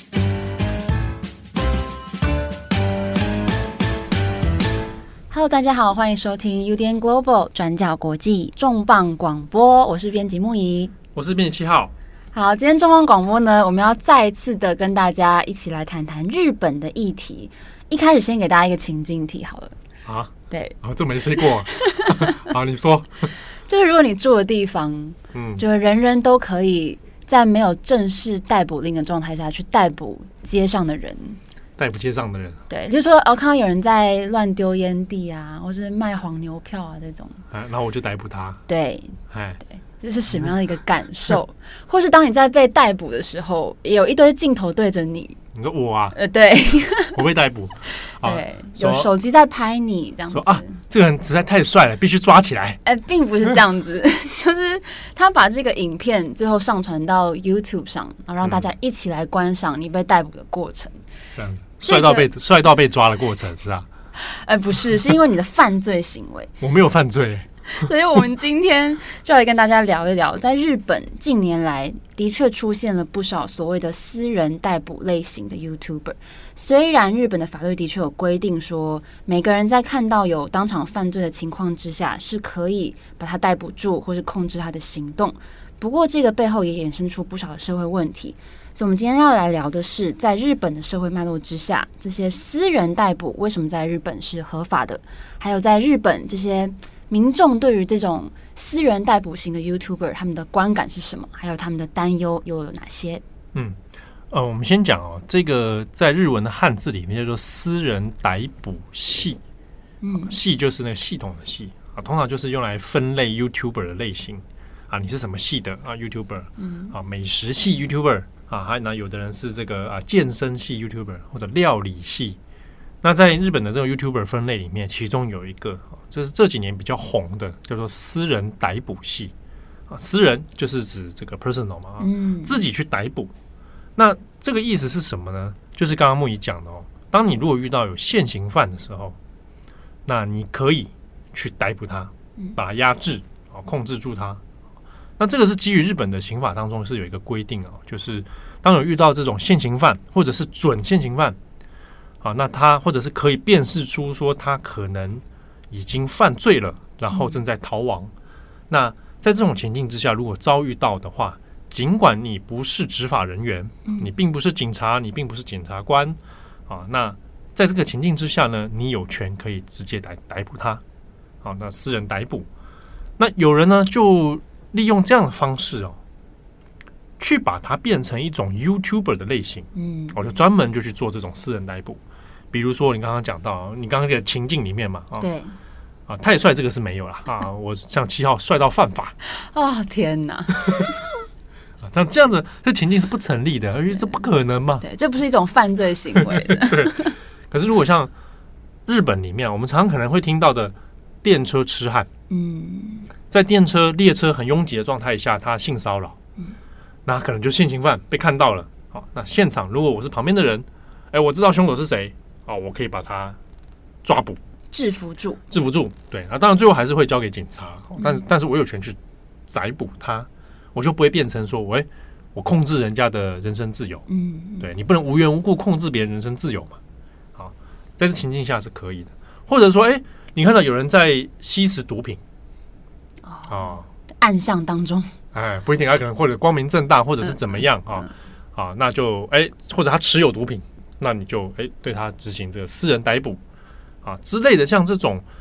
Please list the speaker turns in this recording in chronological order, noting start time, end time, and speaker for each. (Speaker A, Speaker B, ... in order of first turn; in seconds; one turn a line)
Speaker A: 5.3-10.9
Speaker B: 11.1-11.9
Speaker A: 12.3-19.8
Speaker B: 20.1-23.4
Speaker A: 20.5-20.8
Speaker A: 21.4-22.4
Speaker A: 23.5-31.4
Speaker B: 25.3-25.6
Speaker B: 31.8-32.6
Speaker A: 32.7-37.4
Speaker B: 37.5-38.6
Speaker A: 38.7-39.2
Speaker B: 39.3-39.6
Speaker A: 40.0-45.4
Speaker B: 40.3-40.5
Speaker B: 45.5-46.2
Speaker A: 46.1-47.2
Speaker B: 47.1-49.1
Speaker A: 47.9-50.7
Speaker B: 50.3-52.8
Speaker A: 52.8-61.0
Speaker B: 58.4-58.7
Speaker B: 61.3-63.9
Speaker A: 61.8-62.3
Speaker A: 64.1-66.5
Speaker B: 66.6-67.5
Speaker A: 67.7-103.2
Speaker B: 104.3-109.4
Speaker A: 110.0-110.3
Speaker B: 110.2-122.4
Speaker A: 116.6-116.9
Speaker B: 123.0-129.3
Speaker B: 129.9-133.3
Speaker A: 132.0-132.6
Speaker B: 133.9-139.2
Speaker B: 140.1-144.4
Speaker B: 145.2-151.4
Speaker B: 152.2-158.1
Speaker B: 158.7-170.8
Speaker B: 171.4-172.5
Speaker B: 173.2-176.0
Speaker B: 177.2-182.0
Speaker A: 179.8-180.2
Speaker B: 182.5-185.3
Speaker A: 185.2-185.6
Speaker B: 186.1-189.2
Speaker A: 189.2-190.9
Speaker B: 191.8-194.8
Speaker A: 194.8-197.1
Speaker B: 196.2-198.1
Speaker B: 198.9-202.1
Speaker A: 202.3-203.1
Speaker B: 203.3-206.2
Speaker B: 207.1-213.4
Speaker B: 214.0-214.4
Speaker A: 214.7-215.4
Speaker B: 215.5-219.0
Speaker B: 219.5-224.1
Speaker A: 224.1-224.7
Speaker B: 224.6-226.8
Speaker B: 227.3-232.2
Speaker A: 233.2-235.2
Speaker B: 233.5-233.8
Speaker B: 235.3-243.4
Speaker B: 244.0-245.2